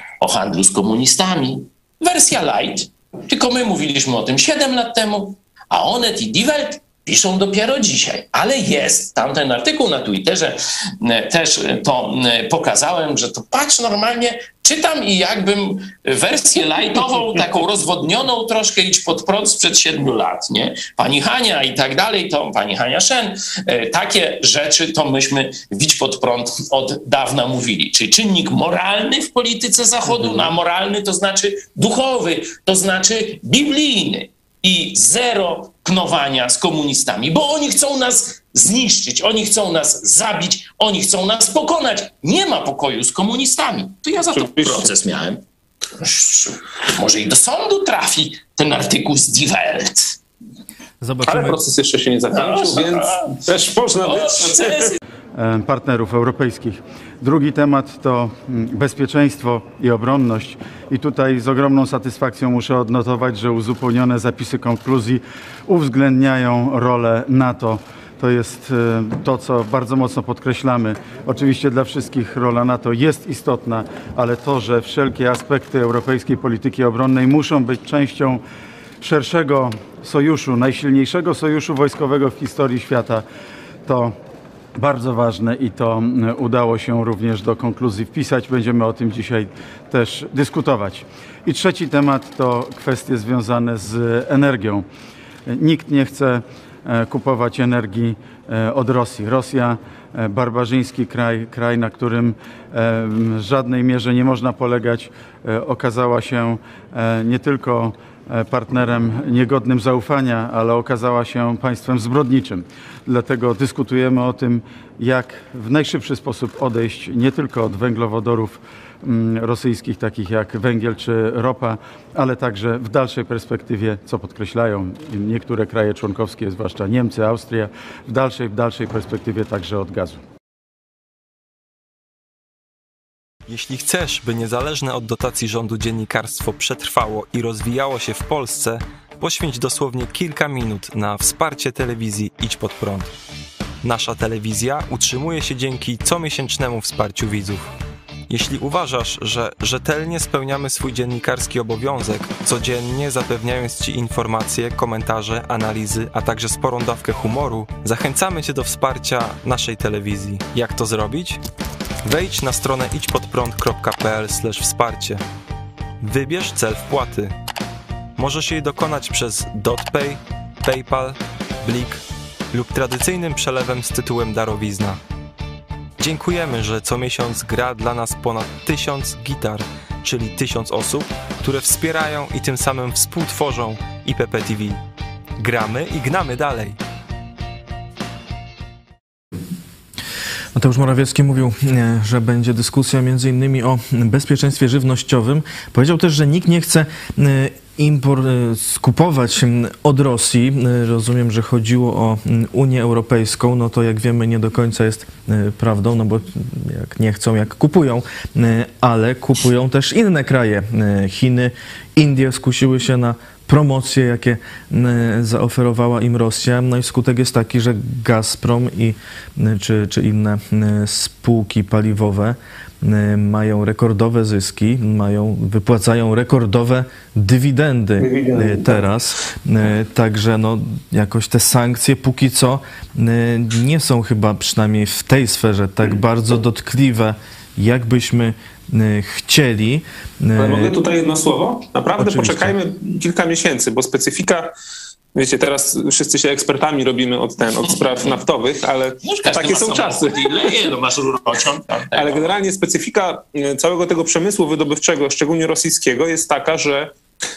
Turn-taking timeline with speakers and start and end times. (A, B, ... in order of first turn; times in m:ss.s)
0:00.2-0:45.4 A
0:30.2-0:30.5 B
0:44.3-0:44.9 B
0:46.0-0:50.2 A
0:51.0-0:51.6 C
0:51.2-0:54.9 B
0:52.3-0:53.4 A
0:54.0-0:55.0 A
0:55.4-1:18.4 D
1:19.0-1:23.2 D
1:23.9-1:24.2 D
1:24.8-1:34.9 D
1:35.5-2:10.2 D
2:13.5-2:23.1 E
2:23.8-2:27.7 E
2:28.3-2:41.4 E
2:42.0-2:45.2 E
2:46.0-2:47.3 E
2:48.2-2:55.0 E
2:56.0-3:04.8 E
3:05.4-3:06.8 E
3:10.6-4:00.8 C
3:48.0-3:48.8 B
4:00.4-4:04.5 B
4:02.0-4:02.6 C
4:05.2-4:10.6 B
4:09.0-4:12.4 A
4:11.9-4:16.9 B